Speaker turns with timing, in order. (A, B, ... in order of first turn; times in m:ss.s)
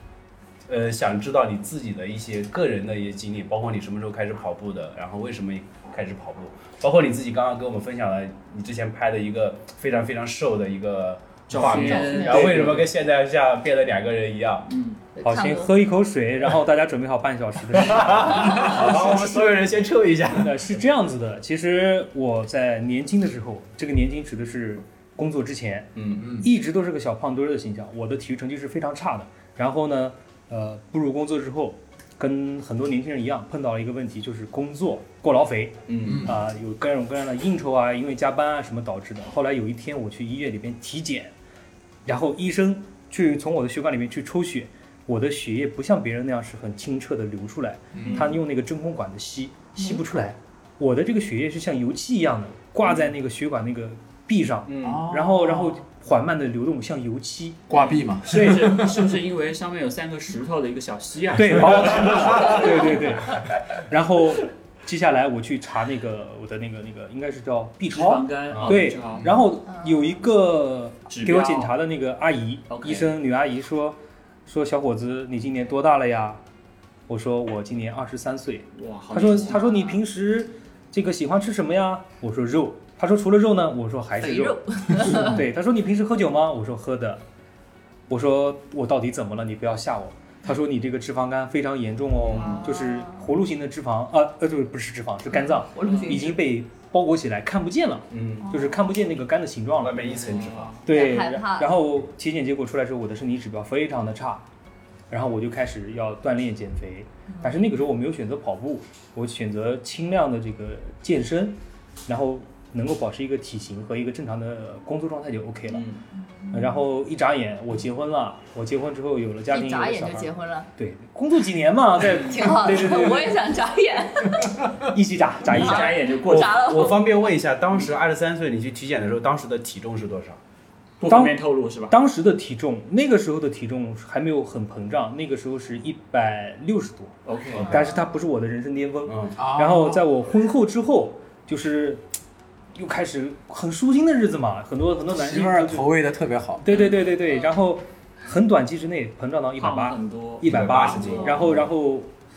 0:00.7-0:14.7 A
0:11.5-0:12.9 B
0:11.6-0:12.6 C
0:14.7-0:15.0 B
0:15.2-0:15.7 C
0:15.2-0:19.6 D
0:17.7-0:20.6 A
0:20.3-0:41.3 D
0:26.0-0:26.2 A
0:26.2-0:26.5 E
0:35.9-0:36.3 A
0:36.0-0:36.4 E
0:42.1-0:57.6 D
0:47.9-0:48.2 E
0:48.0-0:48.3 A
0:54.7-0:55.0 A
0:54.8-0:55.7 E
0:57.7-0:58.9 E
0:57.7-1:03.0 B
0:58.3-0:58.9 D
1:01.4-1:16.4 D
1:07.9-1:09.3 B
1:08.5-1:08.8 A
1:11.1-1:11.7 B
1:12.7-1:13.1 B
1:17.1-1:27.2 D
1:18.8-1:19.6 B
1:24.2-1:25.4 C
1:28.1-1:40.0 D
1:32.3-1:32.6 B
1:32.4-1:33.2 C
1:35.3-1:36.4 C
1:35.8-1:36.2 B
1:38.1-1:38.5 A
1:38.4-1:38.8 C
1:39.8-1:40.8 A
1:40.0-1:40.8 B
1:40.8-1:44.4 D
1:40.9-1:41.7 C
1:45.1-1:55.9 D
1:55.7-1:56.0 A
1:56.5-2:03.4 D
1:59.5-2:00.7 C
2:02.0-2:04.7 C
2:04.8-2:06.0 D
2:05.4-2:06.9 B
2:05.5-2:07.1 C
2:06.2-2:10.4 A
2:11.0-2:12.0 B
2:11.1-2:11.4 D
2:11.9-2:22.1 D
2:17.2-2:17.7 B
2:19.1-2:19.3 A
2:19.4-2:20.0 E
2:22.8-2:25.9 D
2:25.1-2:26.7 E
2:26.6-2:32.1 D
2:29.6-2:31.4 B
2:30.4-2:31.5 A